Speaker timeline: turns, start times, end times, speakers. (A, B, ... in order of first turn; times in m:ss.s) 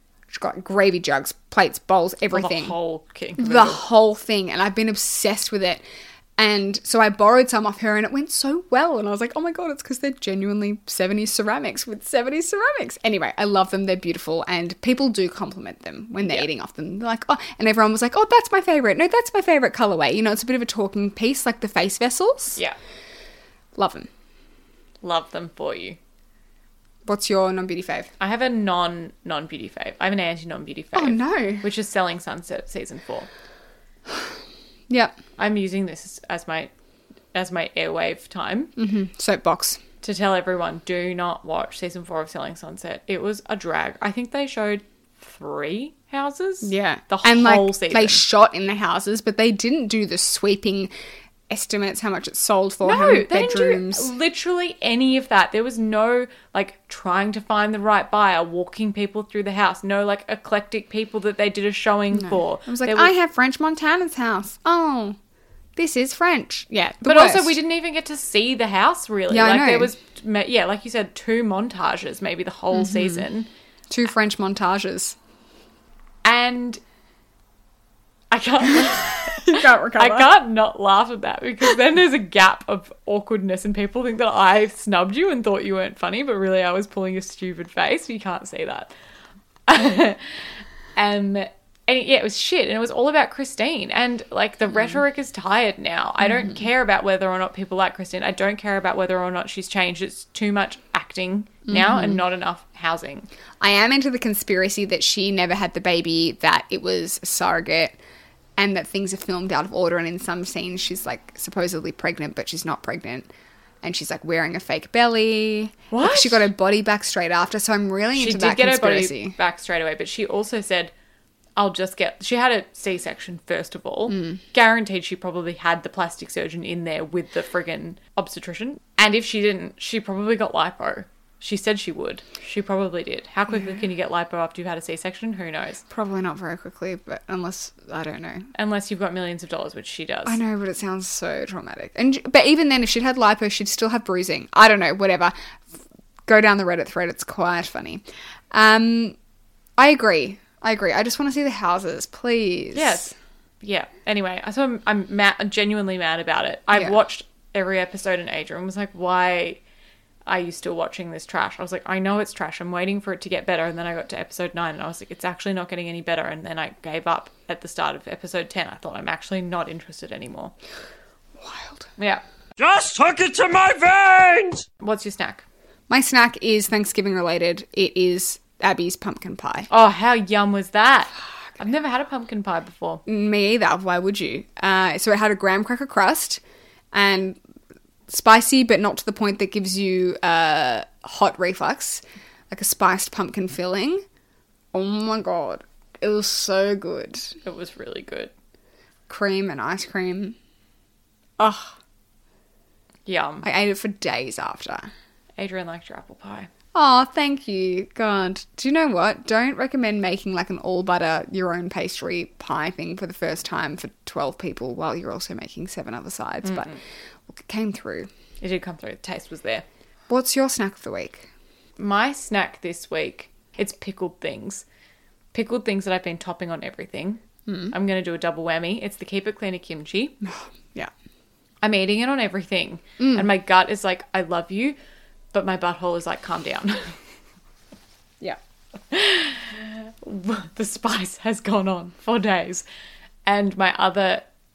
0:00.3-0:02.7 A
0:02.3-0:03.8 B
0:03.4-0:05.8 A
0:06.4-0:22.6 A
0:16.2-0:16.5 B
0:23.8-0:24.1 A
0:25.0-0:26.0 B
0:27.0-0:28.1 A
0:28.2-0:33.3 B
0:30.9-0:31.6 A
0:34.9-0:35.2 A
0:35.4-0:36.7 B
0:37.3-0:38.7 B
0:38.8-0:39.8 A
0:40.0-0:48.2 B
0:46.6-0:50.9 A
0:51.5-0:54.1 A
0:52.8-1:03.1 B
1:02.1-1:05.2 A
1:05.8-1:07.6 A
1:07.0-1:13.5 B
1:09.3-1:09.9 A
1:12.7-1:13.2 A
1:13.9-1:15.2 A
1:16.2-1:16.8 B
1:18.3-1:28.9 B
1:19.2-1:20.3 A
1:29.7-1:43.3 B
1:41.7-1:42.2 A
1:43.6-1:48.0 A
1:48.6-1:53.3 A
1:53.8-1:59.4 A
1:55.9-1:56.5 B
1:58.1-2:00.9 B
2:01.6-2:15.8 B
2:04.1-2:04.4 A
2:15.9-2:18.5 A
2:18.5-2:20.4 B
2:20.2-2:25.6 A
2:26.3-2:29.2 A
2:29.8-2:33.1 A
2:32.7-2:39.6 B
2:40.2-2:50.5 B
2:51.4-2:51.9 A
2:52.0-2:52.2 B
2:52.6-2:54.7 C
2:54.8-2:55.4 B
2:55.9-2:59.7 A
2:59.7-3:03.0 B
3:03.0-3:06.4 A
3:06.9-3:07.4 A
3:08.1-3:14.0 A
3:14.7-3:17.4 A
3:17.4-3:18.3 B
3:19.1-3:20.4 A
3:21.4-3:21.8 A
3:23.0-3:23.4 B
3:23.4-3:24.9 A
3:25.4-3:26.5 B
3:26.7-3:36.7 A
3:36.4-3:36.8 B
3:37.3-3:38.1 A
3:38.4-3:39.6 B
3:40.1-3:41.3 A
3:41.8-3:44.6 B
3:45.3-3:50.2 B
3:47.5-3:47.7 A
3:50.2-3:50.9 A
3:51.6-3:54.8 B
3:53.0-3:53.3 A
3:55.3-3:57.0 B
3:58.9-4:02.6 B
4:03.2-4:04.3 B